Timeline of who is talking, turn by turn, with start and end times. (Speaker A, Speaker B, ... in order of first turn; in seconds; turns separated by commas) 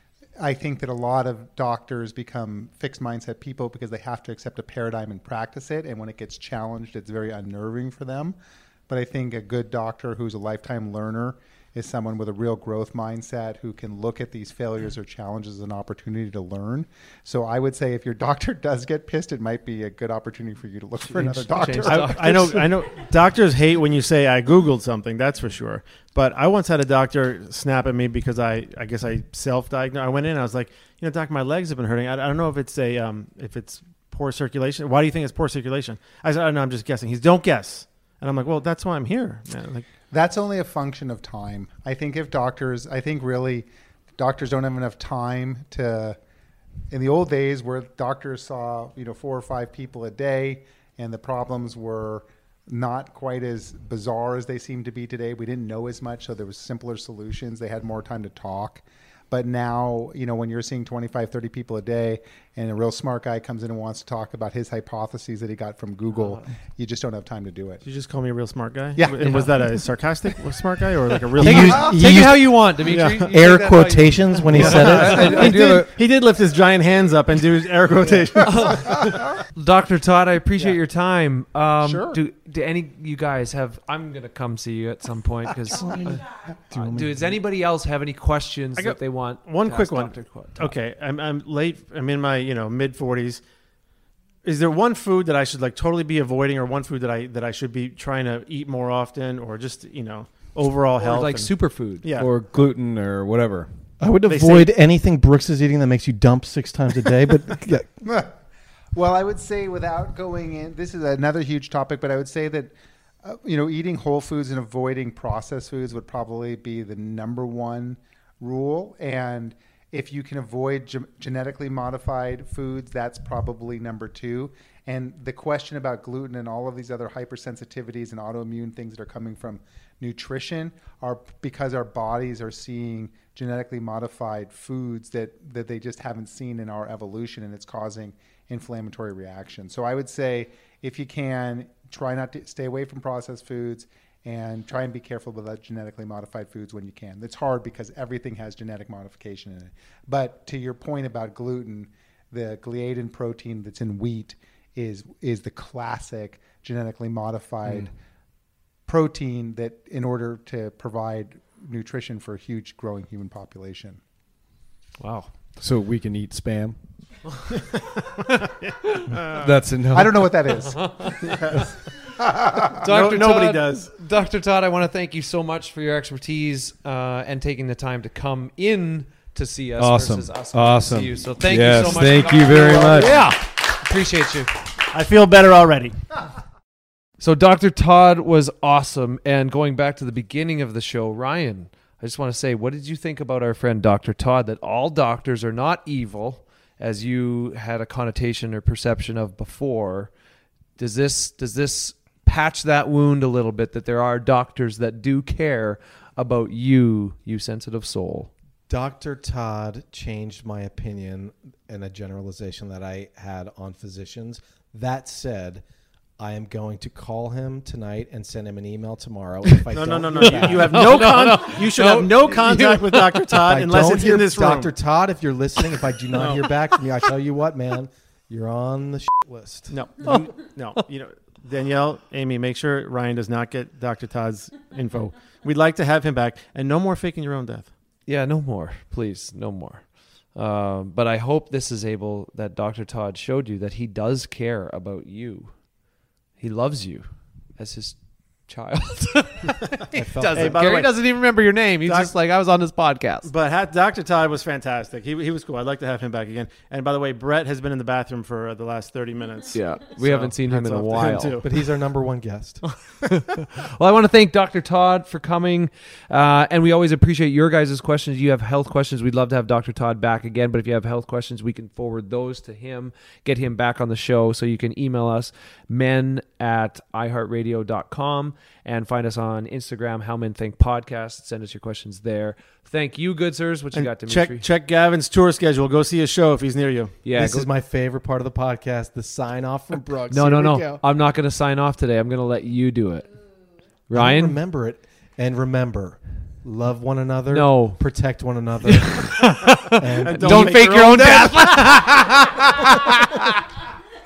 Speaker A: 0.4-8.4, Speaker A: 8.9-22.4, Speaker B: 21.1-22.7, Speaker C: 21.9-39.9, Speaker A: 40.1-46.2, Speaker A: 46.9-67.8, Speaker C: 67.8-72.2, Speaker A: 69.0-69.8, Speaker D: 71.4-72.6, Speaker B: 71.4-75.5, Speaker C: 72.8-73.3, Speaker D: 73.1-75.9, Speaker E: 74.5-75.9, Speaker C: 74.5-79.0, Speaker B: 78.4-90.8, Speaker A: 81.8-82.2, Speaker D: 85.8-86.2, Speaker D: 86.7-87.4, Speaker C: 88.8-93.4, Speaker C: 94.4-102.3, Speaker B: 101.0-102.2, Speaker E: 102.1-103.7, Speaker D: 104.0-108.0, Speaker C: 104.3-104.7, Speaker A: 108.0-108.3, Speaker A: 109.0-112.7, Speaker A: 113.2-157.9, Speaker A: 158.9-164.0, Speaker B: 165.0-165.3, Speaker E: 165.6-166.8, Speaker C: 169.1-169.5, Speaker E: 169.3-170.6, Speaker A: 169.9-171.1, Speaker B: 170.7-171.4, Speaker A: 172.2-172.7, Speaker B: 172.8-184.5, Speaker C: 172.8-173.9, Speaker E: 179.8-183.2, Speaker C: 184.9-186.0, Speaker B: 187.2-200.1, Speaker B: 200.8-208.3, Speaker D: 208.7-215.6, Speaker D: 216.2-221.1, Speaker C: 219.7-224.7, Speaker B: 220.2-223.3, Speaker D: 223.4-229.8, Speaker C: 226.1-226.5, Speaker C: 229.7-237.7, Speaker B: 230.1-230.8, Speaker B: 238.1-245.7, Speaker B: 246.4-253.3, Speaker D: 249.9-250.6, Speaker C: 250.3-251.1, Speaker C: 251.8-252.1, Speaker C: 253.2-261.5, Speaker B: 259.5-261.4, Speaker D: 261.4-262.7, Speaker B: 263.2-284.5, Speaker C: 283.7-287.0, Speaker B: 287.0-287.5, Speaker D: 287.1-290.8, Speaker B: 290.1-293.1, Speaker B: 293.9-294.4, Speaker D: 293.9-301.3, Speaker B: 297.3-297.9, Speaker B: 298.6-303.4, Speaker C: 300.0-301.9